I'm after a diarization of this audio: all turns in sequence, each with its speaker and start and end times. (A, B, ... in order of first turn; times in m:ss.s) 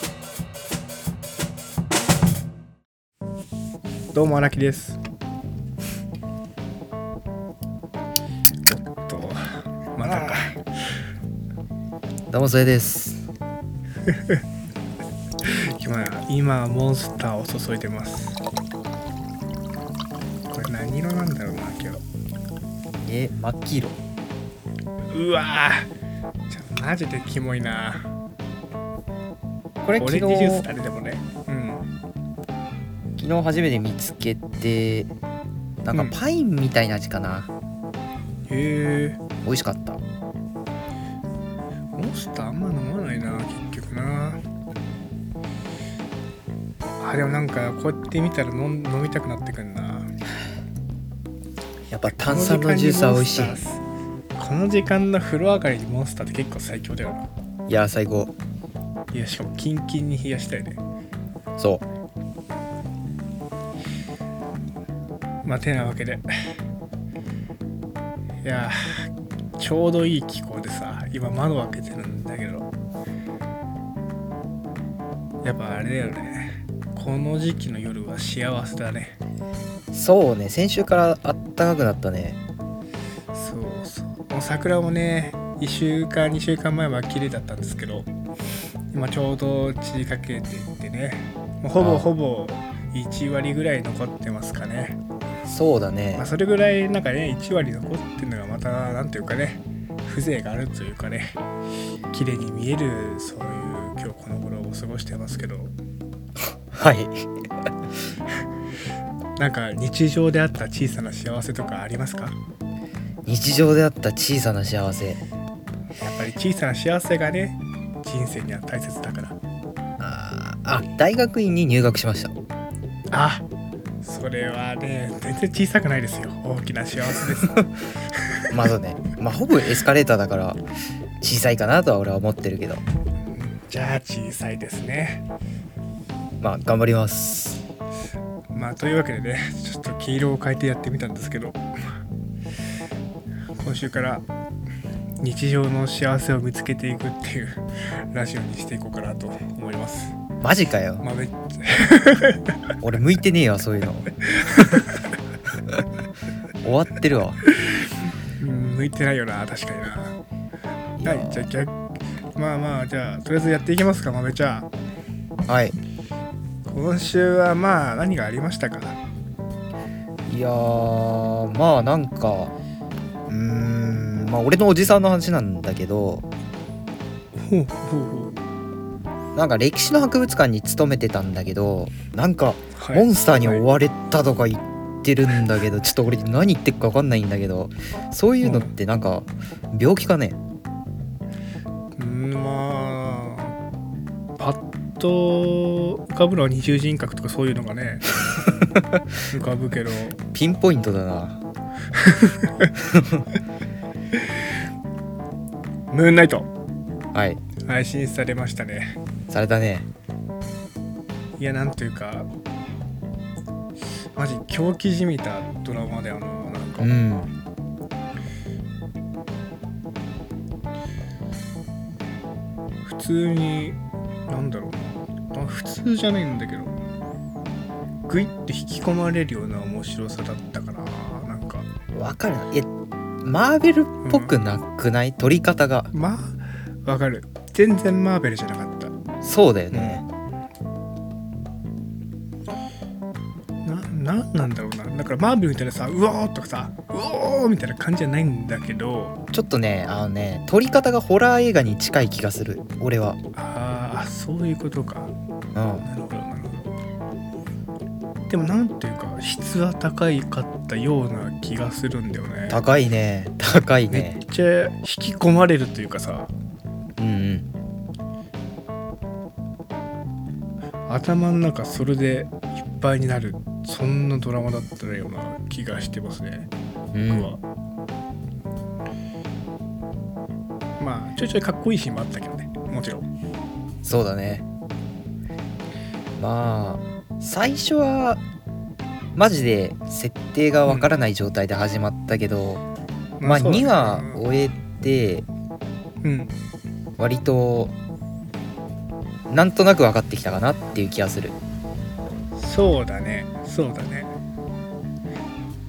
0:04.1-0:05.0 A
0:08.6-0:09.4 A
0:09.9-0:10.6 A
0:12.3-0:13.2 B
0:14.1-0:14.4 A
0:15.4-0:18.4 A
0:20.5-0:22.0 A
0:23.0-0:24.0 B
0:25.1-0:25.9 A
0:26.5-0:28.1 A
0:29.8-0:30.7 B
0:30.0-0:31.8 A
0:33.2-0:35.1 B
0:35.8-0:37.5 B
0:38.5-0:39.2 A
0:39.4-0:40.0 B
0:42.0-0:44.4 A
0:47.0-0:50.1 A
0:51.9-0:53.6 B
0:52.1-0:53.8 A
0:54.4-0:57.3 A
0:57.7-0:58.3 B
0:59.1-1:00.8 A
1:01.6-1:01.8 B
1:05.4-1:06.3 A
1:08.4-1:12.7 A
1:15.4-1:19.2 A
1:19.9-1:22.4 B
1:23.3-1:28.1 A
1:28.9-1:35.0 A
1:31.8-1:32.1 B
1:35.4-1:36.2 B
1:36.2-1:41.4 A
1:42.1-1:45.7 A
1:46.7-1:47.2 B
1:49.4-1:52.3 A
1:53.2-1:55.2 B
1:56.0-1:59.4 A
2:00.0-2:02.3 B
2:03.1-2:03.4 A
2:04.0-2:07.6 A
2:08.5-2:10.6 B
2:11.2-2:12.8 B
2:13.3-2:15.2 A
2:16.4-2:17.6 B
2:18.5-2:21.6 A
2:23.6-2:24.2 A
2:25.2-2:30.1 A
2:30.4-2:31.0 B
2:31.0-2:32.6 A
2:32.8-2:34.1 B
2:34.2-2:35.1 A
2:36.6-2:37.4 B
2:37.5-2:40.2 A
2:41.0-2:41.5 B
2:41.0-2:41.8 A
2:42.4-2:44.7 A
2:45.5-2:45.8 B
2:46.6-2:49.0 A
2:50.3-2:52.5 B
2:53.3-2:56.2 B
2:57.3-2:58.4 A
2:59.3-3:10.4 B
3:02.7-3:03.7 A
3:08.4-3:08.7 A
3:12.0-3:13.6 A
3:14.4-3:18.2 A
3:19.3-3:20.2 A
3:20.3-3:21.4 B
3:21.9-3:22.7 A
3:22.9-3:23.2 B
3:25.9-3:26.5 A
3:27.1-3:27.4 B
3:27.6-3:29.0 A
3:29.3-3:29.9 B
3:31.4-3:32.3 A
3:34.1-3:36.9 A
3:36.8-3:37.3 B
3:42.8-3:43.8 A
3:44.3-3:46.8 A
3:48.1-3:51.7 A
3:51.9-3:52.7 B
3:53.2-3:55.9 B
3:54.0-3:54.3 A
3:55.9-3:58.9 A
3:59.2-4:00.0 B
3:59.7-4:00.0 A
4:03.6-4:09.2 A
4:09.3-4:13.2 B
4:13.3-4:15.1 A
4:15.5-4:15.8 B
4:15.8-4:16.7 A
4:18.3-4:22.6 A
4:22.5-4:24.2 B
4:23.9-4:26.3 A
4:27.0-4:27.5 B
4:30.9-4:36.5 A
4:36.9-4:37.3 B
4:37.0-4:37.4 A
4:40.8-4:43.1 A
4:43.8-4:44.4 B
4:46.2-4:48.2 B
4:49.2-4:52.6 B
4:50.6-4:50.9 A
4:53.2-4:54.2 A
4:53.2-4:55.2 B
4:56.0-4:56.3 A
4:57.0-4:57.7 B
4:59.3-5:01.4 B
5:02.4-5:04.1 A